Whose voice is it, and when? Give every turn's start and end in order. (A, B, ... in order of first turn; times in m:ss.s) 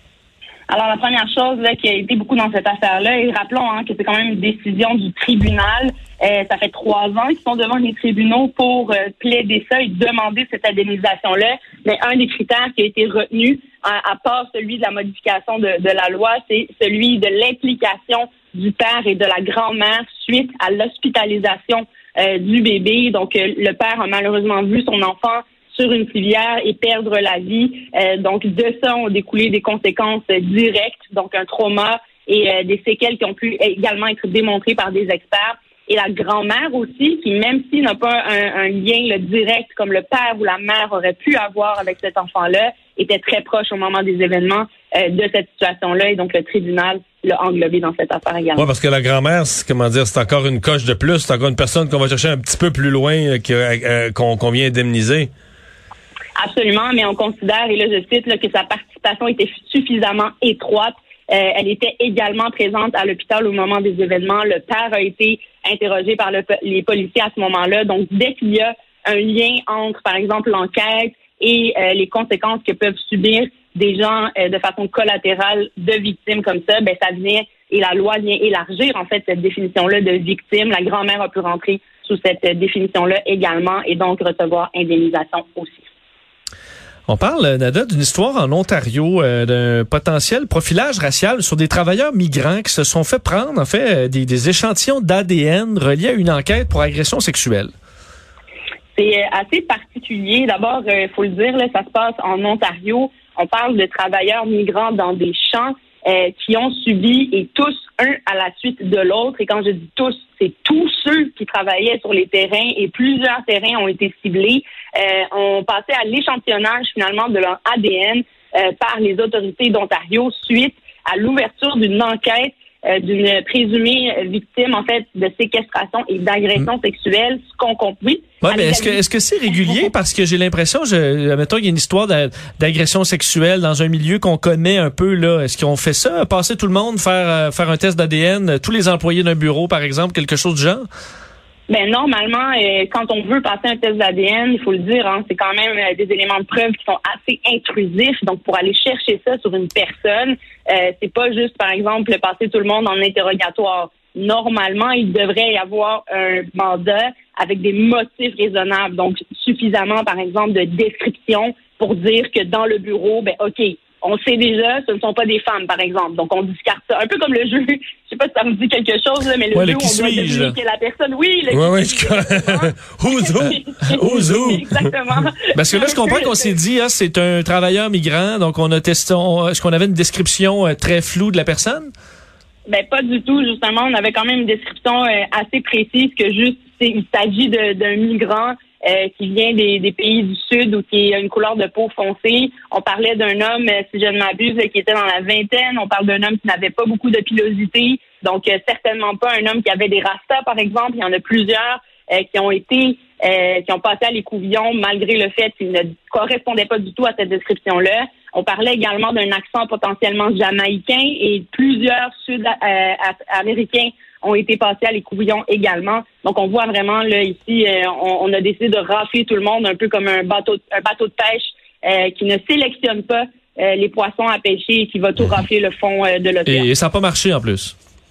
0:00.7-0:48.6 A
0:48.6-0:55.3 B
0:56.4-1:25.8 A
1:27.1-1:37.7 C
1:38.9-2:09.0 A
2:08.4-2:20.8 C
2:21.7-2:56.5 A
2:49.5-2:50.5 C
2:51.5-2:54.8 B
2:54.0-2:54.6 C
2:55.5-3:01.9 C
3:02.7-3:46.7 A
3:46.5-3:47.7 C